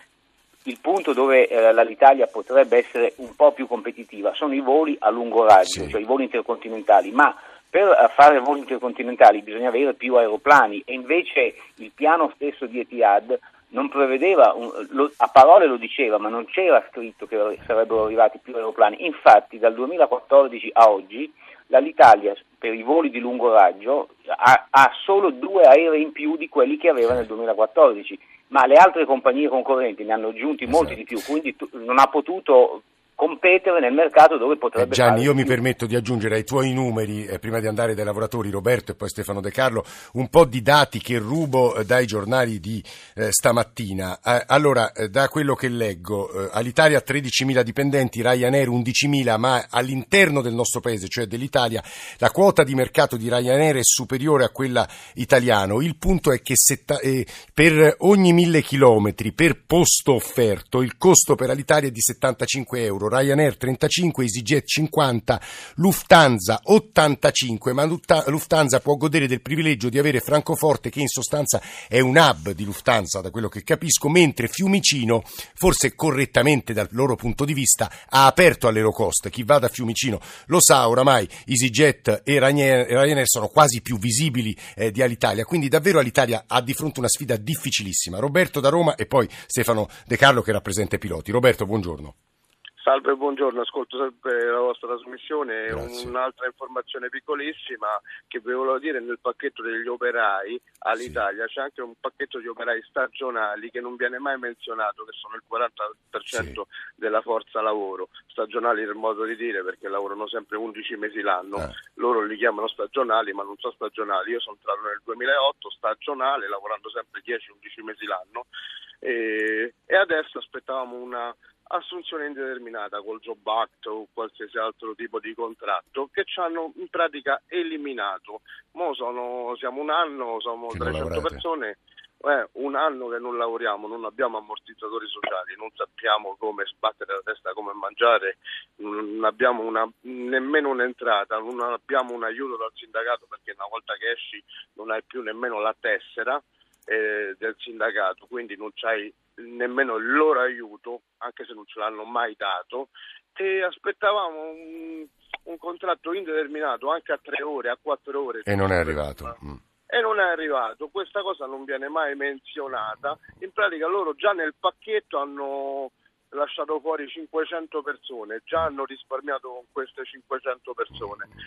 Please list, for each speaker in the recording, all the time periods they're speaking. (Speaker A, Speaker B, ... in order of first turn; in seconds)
Speaker A: 0.6-35.6
Speaker B: 34.8-92.1, 95.7-96.1, 130.7-131.4, 158.5-159.6
Speaker C: 92.8-118.5, 119.0-159.3, 159.9-171.3